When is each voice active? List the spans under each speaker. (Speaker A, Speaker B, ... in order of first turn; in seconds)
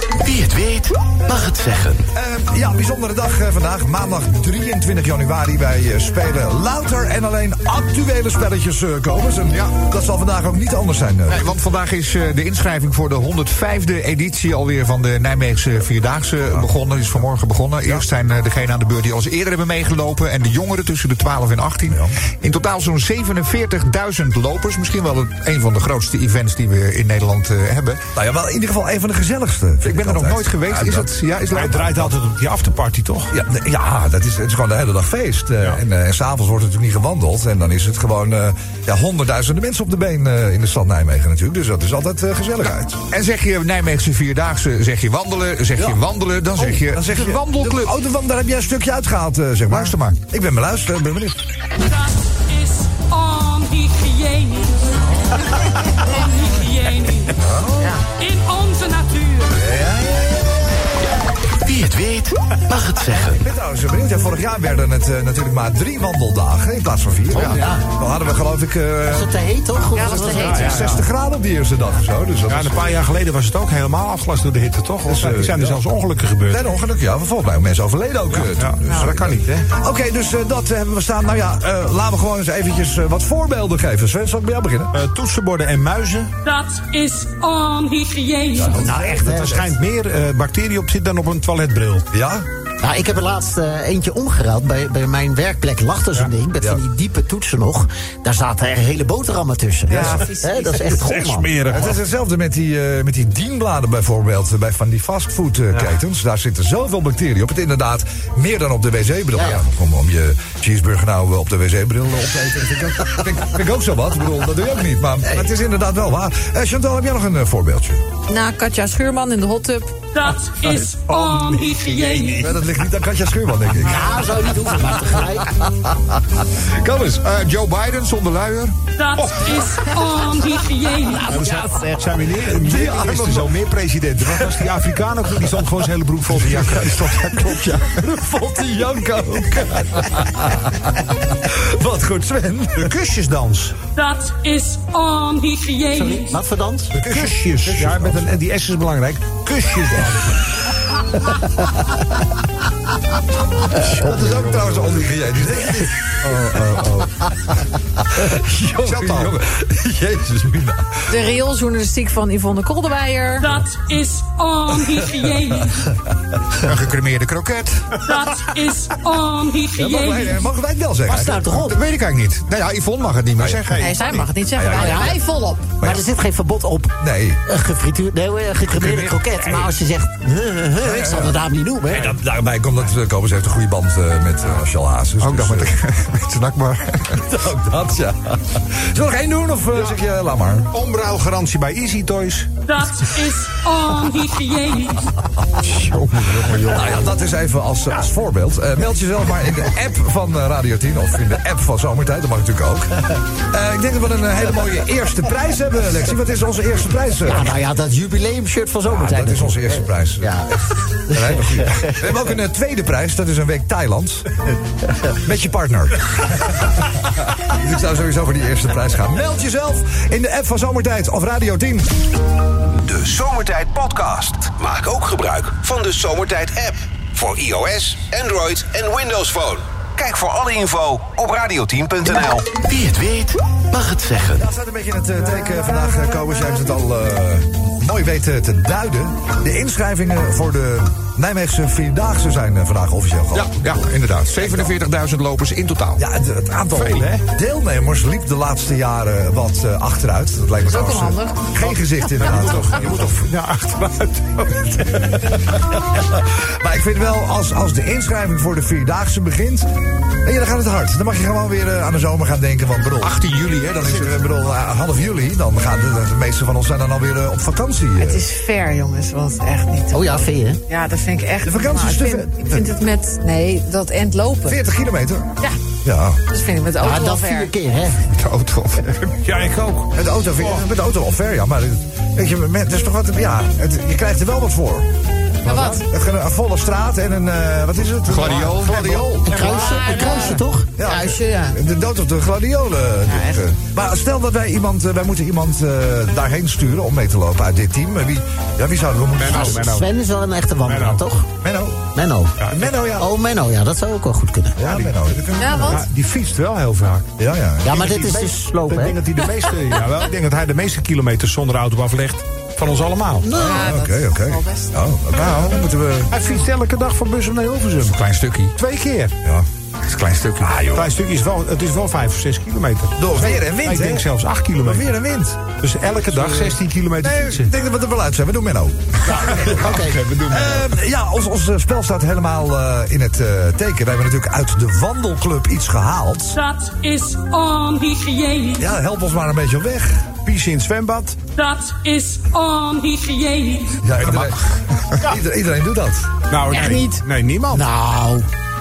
Speaker A: 0.2-2.0, 61.7-62.3, 232.7-233.2, 233.8-234.1
Speaker B: 0.4-0.6, 62.7-63.4, 67.4-67.8, 69.0-71.0, 88.7-89.6, 92.8-101.5, 109.3-109.6, 123.8-125.6, 146.0-146.9, 171.1-171.8, 174.6-175.2, 175.8-176.9, 177.5-182.2, 207.2-210.6, 211.1-211.9, 269.9-270.6, 276.8-278.1, 289.2-290.7, 299.3-301.3, 301.9-304.7, 307.6-309.0, 329.0-330.0, 347.5-348.3
Speaker C: 2.1-11.5, 21.9-22.2, 28.1-31.9, 33.3-43.0, 46.5-51.4, 57.3-58.0, 59.5-61.1, 63.2-69.3, 70.0-72.8, 75.1-75.8, 76.5-84.9, 88.5-89.7, 92.1-92.5, 99.9-100.3, 101.7-118.0, 122.3-124.1, 125.6-126.2, 132.5-133.6, 136.3-142.9, 147.0-148.4, 153.7-161.0, 169.8-171.3, 173.4-173.7, 174.5-175.2, 175.8-176.0, 177.0-177.4, 180.8-181.3, 181.9-185.8, 187.1-190.7, 196.7-207.6, 208.9-210.6, 211.1-214.3, 215.2-216.6, 217.2-222.0, 234.3-243.8, 244.4-244.7, 246.0-253.1, 255.3-259.7, 260.2-263.2, 263.7-268.2, 271.4-272.6, 274.4-276.2, 279.9-284.9, 285.4-289.5, 290.8-299.6, 301.4-301.9, 302.5-303.1, 304.6-305.8, 307.2-307.8, 313.3-316.1, 323.0-324.1, 324.6-325.5, 326.1-329.7, 330.3-336.4, 338.6-340.1, 343.8-346.1
Speaker D: 11.3-28.0, 29.8-32.1, 43.1-48.0, 49.7-50.2, 126.8-128.8, 166.6-167.9, 171.7-173.9, 178.8-179.7, 243.3-246.0, 263.0-264.1, 288.1-289.0, 317.8-318.6, 319.8-320.7
Speaker E: 31.5-33.3, 67.3-67.7, 70.3-71.0, 72.5-76.7, 78.3-79.7, 84.9-86.3, 88.8-92.0, 100.9-102.0, 121.2-122.2, 129.2-129.5, 131.3-137.9, 142.8-143.8, 146.9-150.3, 153.9-155.1, 156.4-157.0, 158.8-159.4, 173.4-174.3, 185.2-187.2, 190.7-192.5, 195.7-196.9, 246.7-247.2, 251.6-255.3, 278.1-280.6, 288.1-290.2, 299.2-299.9, 300.6-301.0, 302.4-302.8, 304.6-304.9, 305.6-307.1, 307.7-313.3, 315.1-315.6, 316.1-318.0, 318.6-319.1, 320.6-324.9, 325.5-327.5, 329.2-330.7, 340.2-341.2, 344.0-344.3, 346.3-347.7
Speaker F: 51.8-57.4, 58.1-59.6, 86.4-88.8, 120.1-122.5, 129.0-131.6, 143.9-146.3, 163.4-165.9, 168.0-170.4, 192.7-195.2, 336.3-338.7, 341.4-343.8
Speaker G: 69.9-70.9, 99.9-101.0, 118.3-119.9, 131.3-132.0, 161.1-163.5, 173.8-175.7, 250.7-251.6, 268.0-274.6, 276.3-277.5, 285.4-285.8, 289.4-291.6, 293.1-293.4, 305.4-305.8, 313.2-314.7, 346.5-347.0
Speaker H: 222.7-232.6